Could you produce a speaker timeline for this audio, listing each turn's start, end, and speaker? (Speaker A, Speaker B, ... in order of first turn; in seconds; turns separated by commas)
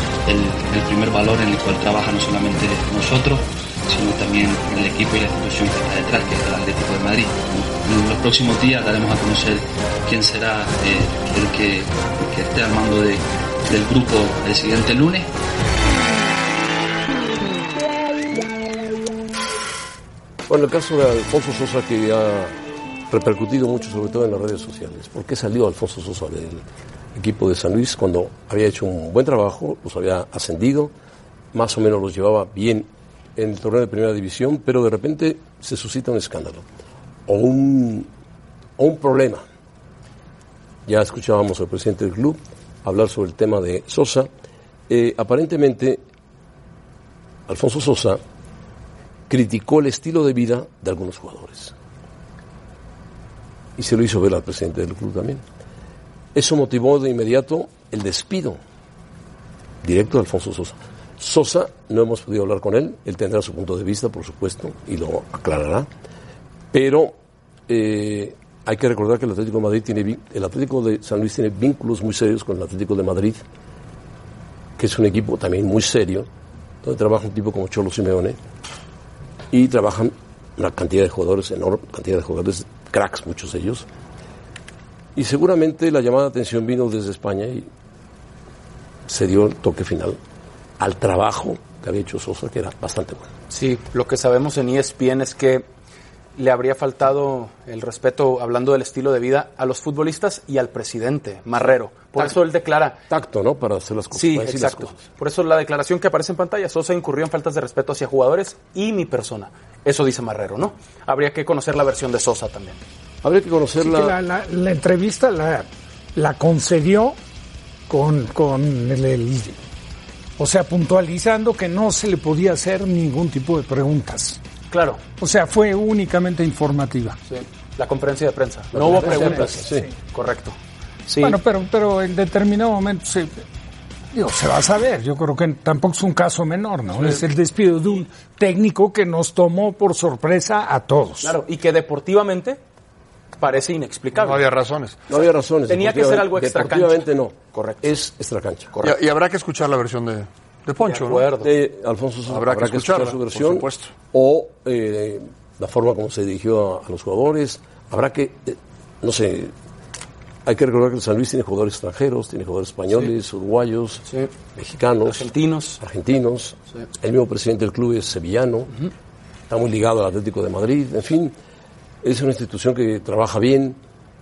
Speaker A: 0.3-15.3, Speaker B: 20.5-22.6, Speaker B: 23.1-30.9, Speaker B: 31.5-36.6, Speaker B: 37.3-38.1, Speaker B: 38.8-39.5, Speaker B: 40.9-44.3, Speaker B: 44.9-46.0, Speaker B: 47.5-48.2, Speaker B: 49.3-51.7, Speaker B: 53.8-55.4, Speaker B: 56.4-58.6, Speaker B: 59.8-65.9, Speaker B: 66.7-67.2, Speaker B: 67.7-73.4, Speaker B: 74.8-76.3, Speaker B: 76.8-78.4, Speaker B: 79.5-83.9, Speaker B: 85.2-87.7, Speaker B: 89.1-90.2, Speaker B: 90.8-93.3, Speaker C: 93.5-95.7, Speaker C: 96.4-103.0, Speaker B: 103.1-105.0, Speaker C: 104.1-112.8, Speaker B: 113.2-114.2, Speaker D: 113.8-117.2, Speaker D: 117.9-119.6, Speaker D: 120.4-124.4, Speaker C: 124.7-125.0, Speaker D: 125.2-127.2, Speaker C: 127.3-131.4, Speaker B: 128.7-129.9, Speaker D: 128.8-129.6, Speaker D: 131.2-133.4, Speaker D: 134.1-141.4, Speaker C: 141.2-142.6, Speaker C: 143.4-144.4, Speaker E: 144.1-145.0, Speaker B: 145.1-148.7, Speaker C: 145.7-147.9, Speaker E: 148.8-151.2, Speaker C: 150.8-151.5, Speaker B: 151.4-159.5, Speaker E: 152.3-153.9, Speaker B: 160.4-168.7, Speaker C: 165.1-165.8, Speaker B: 169.5-171.3, Speaker B: 172.0-173.8